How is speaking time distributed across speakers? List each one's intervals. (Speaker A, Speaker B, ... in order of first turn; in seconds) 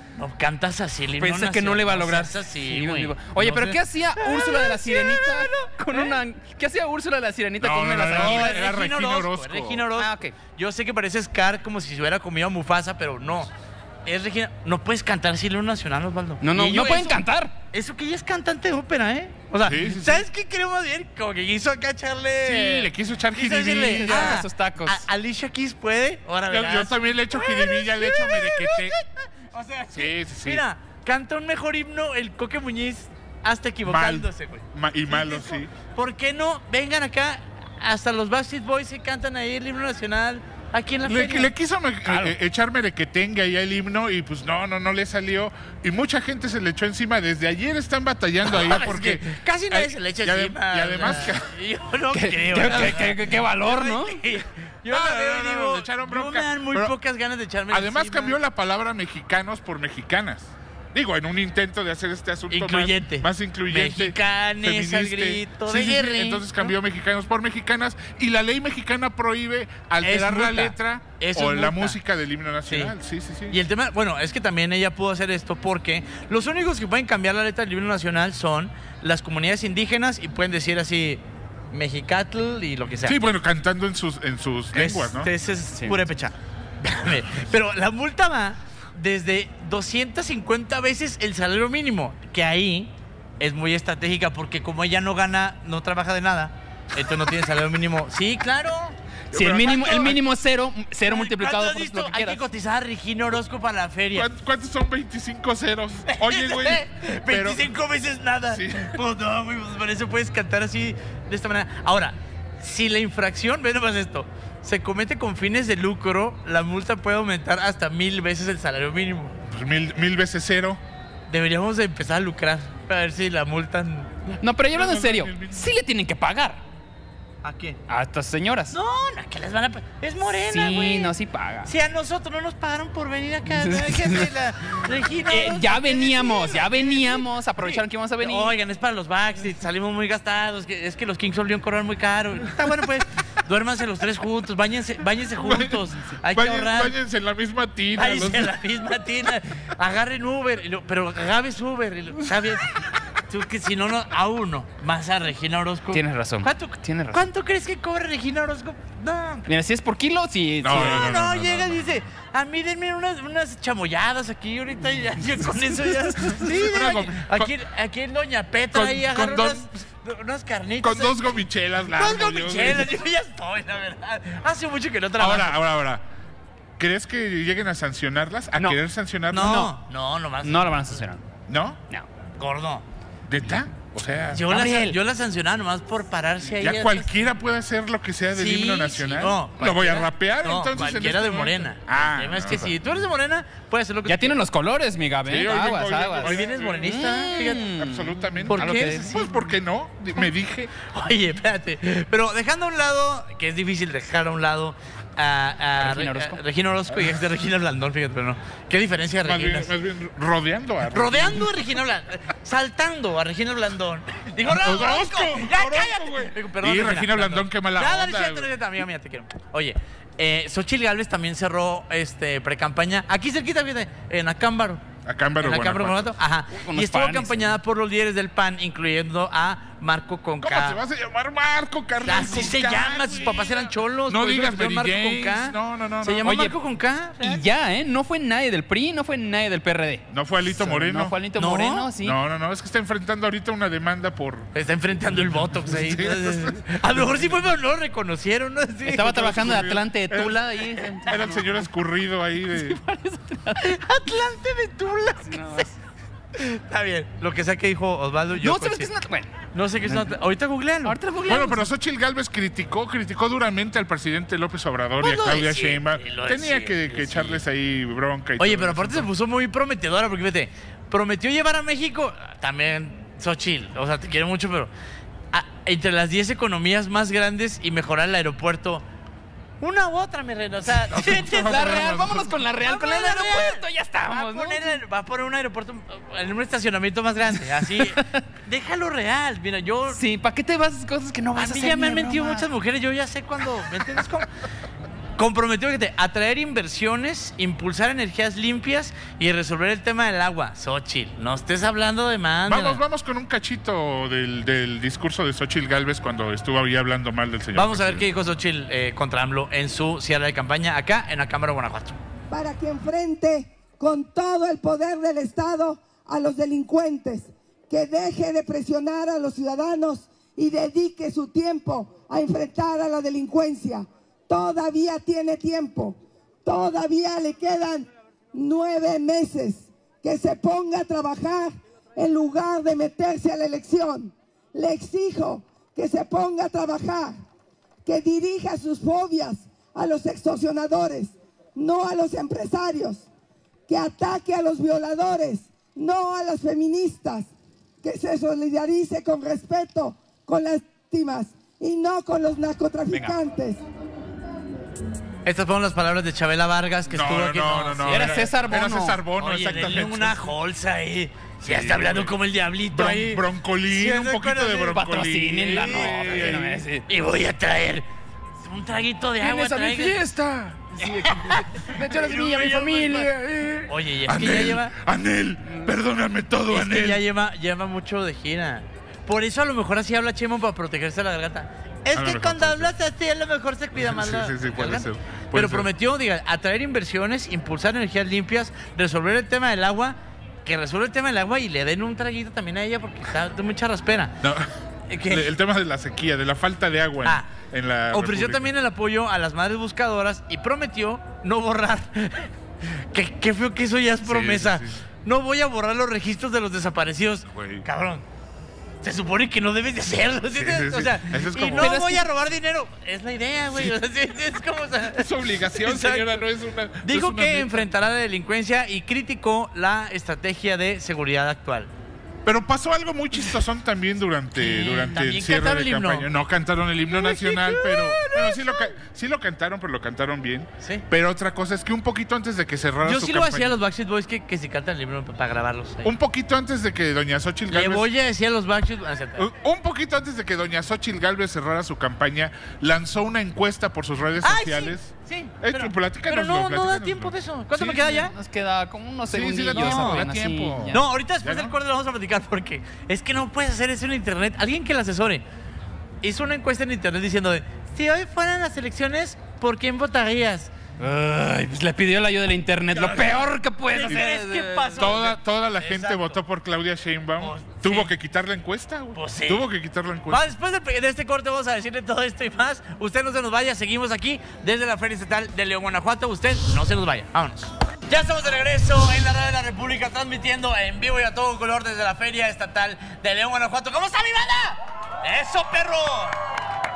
Speaker A: 0.2-6.2, 8.1-13.5, 14.1-41.5, 48.5-58.4, 62.5-66.7, 70.0-72.0, 72.7-72.9, 73.5-83.2, 84.7-99.0, 99.7-100.1, 101.1-104.3, 106.1-119.3, 121.3-124.2, 127.4-127.8, 128.7-131.1, 131.6-146.9, 147.9-152.7, 153.3-159.5, 160.7-171.2, 171.9-175.6, 179.3-181.0, 182.4-182.8, 184.3-187.1, 188.3-194.4, 196.2-197.7, 198.4-199.3, 200.9-209.7, 210.9-224.8, 225.4-230.8, 232.0-237.4, 241.4-241.9, 244.5-249.4, 253.5-255.7, 256.3-258.9, 259.5-261.0, 265.0-267.4, 268.4-274.7, 275.3-278.8, 279.6-282.0, 282.6-290.0, 291.4-294.3, 295.2-302.8, 307.5-312.0, 355.2-358.2, 359.2-364.8, 365.5-367.9, 368.4-370.0, 370.9-373.1, 373.7-374.7, 376.5-394.1, 394.9-395.3, 397.9-408.0, 408.8-416.1, 416.8-421.7, 424.4-426.1, 426.9-428.8, 432.8-435.9, 437.5-439.2, 444.2-448.1, 449.5-450.1, 450.7-455.2, 456.0-460.5, 462.7-466.2, 467.2-467.9, 468.9-469.4, 470.1-486.1
Speaker B: 1.1-8.6, 9.9-10.3, 16.4-17.5, 23.8-25.0, 42.0-42.3, 52.1-54.2, 85.7-86.0, 99.3-102.4, 124.4-126.6, 127.9-128.8, 130.4-131.7, 133.5-134.3, 135.3-138.5, 155.9-157.3, 159.5-161.1, 180.4-181.2, 184.5-184.9, 194.1-199.3, 205.8-206.4, 226.5-227.6, 237.2-242.2, 248.8-251.4, 252.5-253.6, 255.3-255.7, 258.4-259.3, 259.9-260.1, 260.8-261.6, 281.3-284.8, 287.7-288.2, 289.9-292.4, 357.9-359.0, 364.7-366.9, 369.2-373.6, 411.6-412.0, 447.9-450.9, 460.8-464.9
Speaker C: 7.6-9.8, 19.6-20.2, 22.4-24.4, 26.5-29.0, 29.9-30.6, 33.8-35.7, 41.0-51.5, 52.7-53.1, 54.9-56.9, 57.7-73.5, 83.0-85.3, 99.3-100.2, 104.1-107.7, 108.5-109.0, 119.5-120.8, 124.7-125.7, 145.4-148.5, 160.6-161.9, 166.4-167.5, 168.7-169.7, 170.8-173.0, 175.2-176.0, 176.8-179.7, 181.5-181.8, 183.3-184.8, 186.6-192.7, 195.2-197.2, 197.7-200.7, 209.2-211.5, 214.6-218.5, 225.1-226.1, 230.4-236.5, 240.1-241.2, 242.0-244.5, 245.6-247.2, 249.1-250.4, 251.0-252.8, 261.2-269.1, 280.9-282.4, 302.5-308.1, 352.9-353.2, 356.9-360.2, 361.4-362.1, 362.7-366.6, 373.4-377.0, 381.9-382.7, 383.7-385.7, 394.2-394.5, 395.0-398.5, 404.0-404.8, 407.3-407.6, 410.3-411.7, 415.0-417.7, 422.2-433.5, 435.8-437.9, 439.2-448.1, 449.1-451.5, 464.8-470.3
Speaker D: 312.3-337.1, 337.9-343.1, 343.7-347.3, 347.8-353.6